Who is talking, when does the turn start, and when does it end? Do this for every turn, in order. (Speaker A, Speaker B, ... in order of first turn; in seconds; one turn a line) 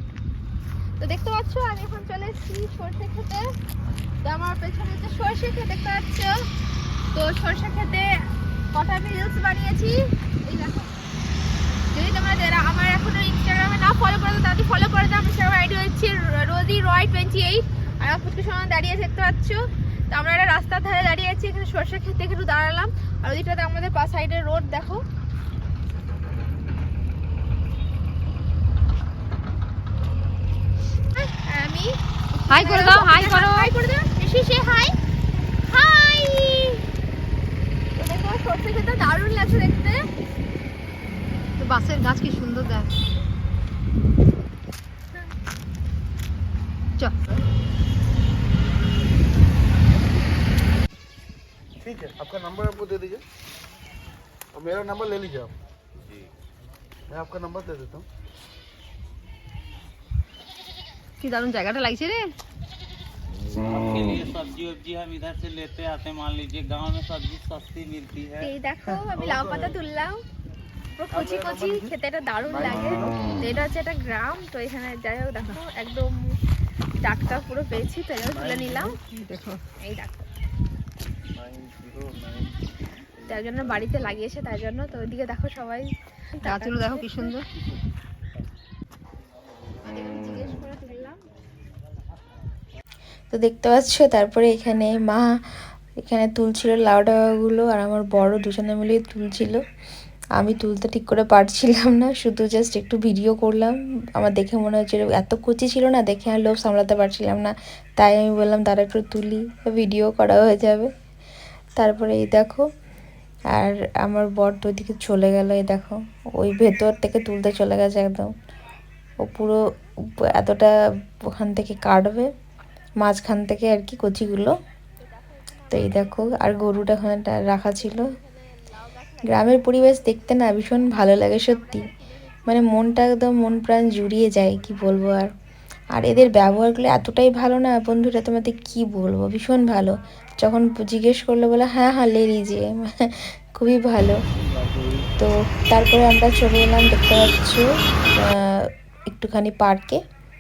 Speaker A: 1.0-3.5
Speaker A: 4.2-6.4
Speaker A: 7.1-10.9
Speaker A: 11.9-25.0
Speaker A: 31.2-31.9
Speaker A: 32.5-35.0
Speaker B: 32.5-33.7
Speaker A: 35.7-36.8
Speaker A: 38.0-40.1
Speaker B: 41.6-42.9
Speaker C: 51.8-53.2
Speaker C: 54.5-55.5
Speaker C: 57.1-58.1
Speaker B: 61.2-62.3
Speaker D: 63.7-68.5
Speaker A: 68.4-70.2
Speaker A: 71.0-76.4
Speaker C: 71.2-71.9
Speaker A: 77.0-79.0
Speaker B: 79.1-79.6
Speaker A: 79.8-80.3
Speaker C: 81.4-82.1
Speaker A: 83.3-87.3
Speaker B: 86.4-87.5
Speaker A: 89.8-91.2
Speaker E: 93.3-99.6
Speaker E: 100.4-110.9
Speaker E: 111.8-112.7
Speaker E: 113.5-118.3
Speaker E: 119.2-119.6
Speaker E: 120.2-120.7
Speaker E: 121.3-122.3
Speaker E: 123.0-124.5
Speaker E: 125.7-128.1
Speaker E: 129.3-131.9
Speaker E: 132.5-135.3
Speaker E: 135.9-144.2
Speaker E: 145.2-150.0